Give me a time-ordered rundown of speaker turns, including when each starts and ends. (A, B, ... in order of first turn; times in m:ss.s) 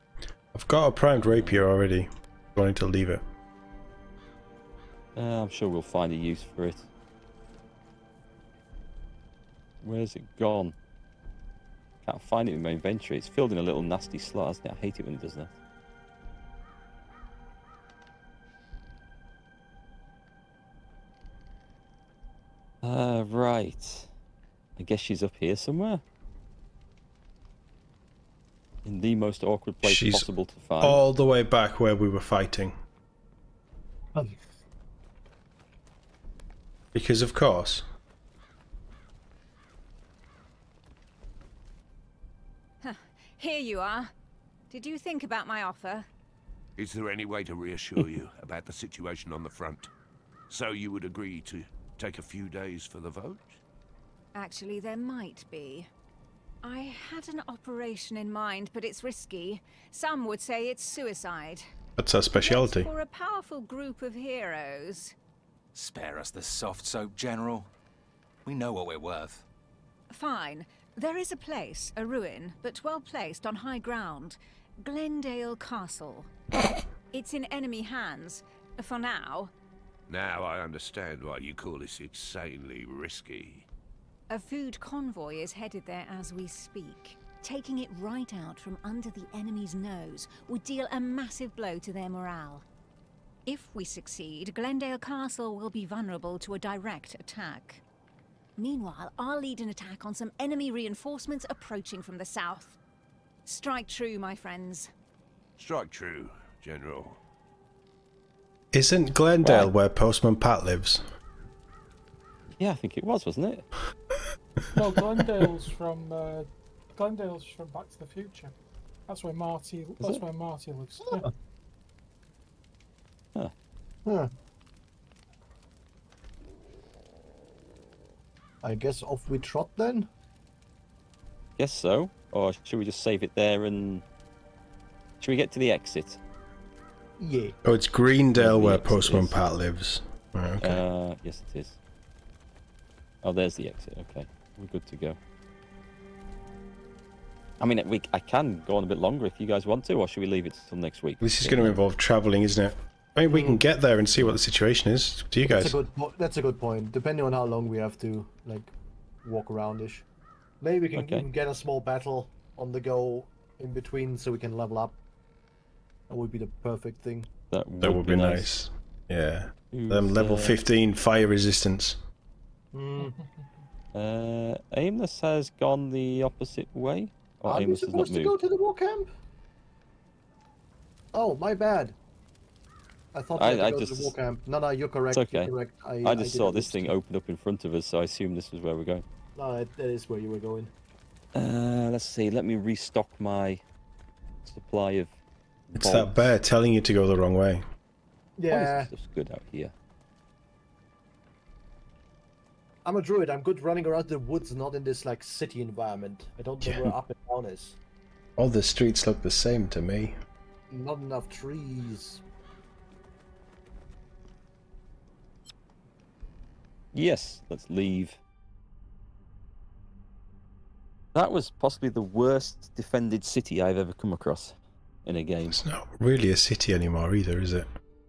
0:00.5-0:03.2 A
0:01.2-0:01.7 B
0:05.2-0:06.9 B
0:09.8-0:10.8 B
0:12.0-0:15.5 B
0:22.8-0:24.1 B
0:24.8-0:26.0 B
0:28.8-0:31.0 B
0:29.8-0:30.3 A
0:30.8-0:32.8 A
0:36.9-0:37.8 A
0:42.8-0:44.1 C
0:44.7-0:46.1 C
0:46.8-0:49.9 D
0:50.5-0:53.6 D
0:54.4-0:55.9 C
0:56.6-1:01.7 C
1:02.0-1:02.9 A
1:02.3-1:05.1 C
1:05.8-1:07.7 E
1:08.4-1:09.5 E
1:10.1-1:16.3 C
1:17.1-1:19.5 C
1:20.1-1:23.7 D
1:24.3-1:32.6 C
1:33.5-1:37.8 C
1:38.6-1:42.8 C
1:43.5-1:44.9 C
1:45.6-1:47.2 D
1:48.7-1:51.0 A
1:49.4-1:49.7 B
1:52.6-1:53.7 B
1:54.8-1:58.6 F
1:59.1-2:01.3 F
2:04.1-2:04.3 G
2:08.6-2:10.1 G
2:11.6-2:14.0 B
2:15.2-2:16.2 B
2:17.2-2:17.6 G
2:17.6-2:20.8 A
2:18.4-2:19.4 B
2:20.6-2:21.8 B
2:23.2-2:25.2 B
2:27.6-2:31.8 B
2:31.2-2:35.8 A
2:33.3-2:33.6 G
2:35.4-2:38.7 G
2:39.2-2:40.0 G
2:40.6-2:45.0 G
2:41.0-2:41.3 B
2:46.1-2:47.3 G
2:47.5-2:48.5 B
2:47.8-2:52.0 A
2:49.7-2:50.6 B
2:52.7-2:53.2 G
2:53.0-2:53.5 F
2:53.9-2:58.4 B
2:57.5-2:59.1 G
3:01.1-3:02.0 G
3:03.1-3:06.9 G
3:03.4-3:04.2 B
3:05.1-3:09.0 B
3:09.4-3:10.7 G
3:11.3-3:13.6 B
3:14.5-3:15.1 B
3:15.7-3:16.4 B
3:15.8-3:17.6 A
3:18.4-3:18.9 G
3:18.5-3:19.7 B
3:22.8-3:27.8 G
3:26.6-3:26.9 B
3:28.4-3:30.2 A
3:30.7-3:32.2 G
3:36.9-3:38.2 B
3:41.2-3:44.5 B
3:45.0-3:45.6 B
3:45.5-3:47.7 A